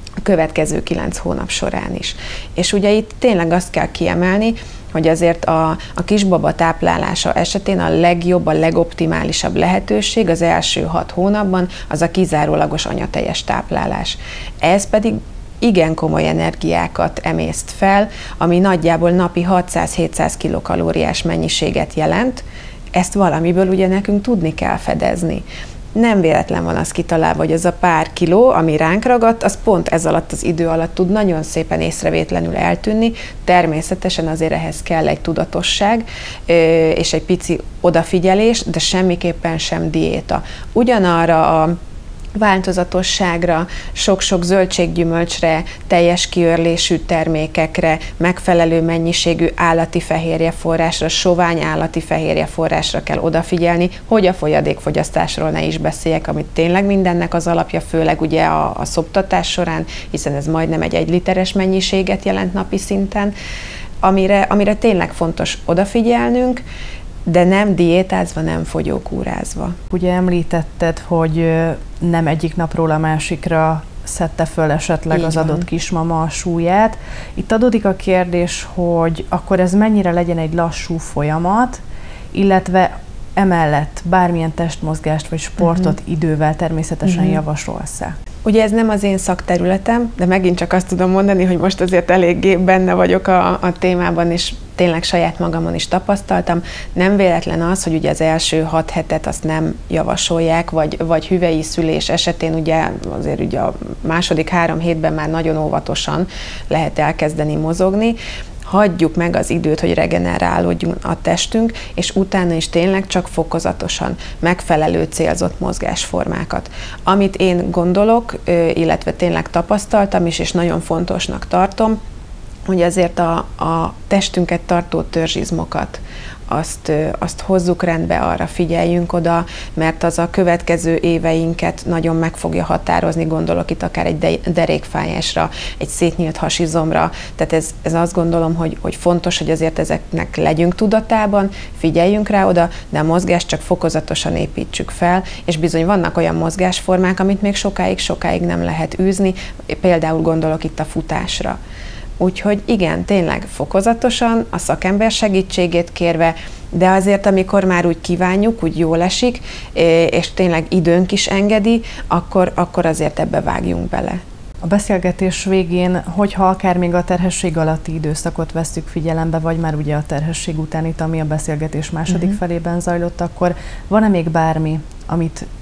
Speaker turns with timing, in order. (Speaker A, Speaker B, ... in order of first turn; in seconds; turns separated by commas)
Speaker A: 0.2-41.8, Speaker A: 42.4-63.3, Speaker A: 64.0-66.6, Speaker A: 67.3-69.8, Speaker B: 69.9-81.8, Speaker A: 75.1-75.7, Speaker B: 82.3-88.1, Speaker A: 85.6-85.9, Speaker A: 87.0-87.4, Speaker A: 88.5-122.0, Speaker A: 122.7-151.6, Speaker A: 152.2-164.2, Speaker B: 164.6-175.4, Speaker A: 172.1-172.4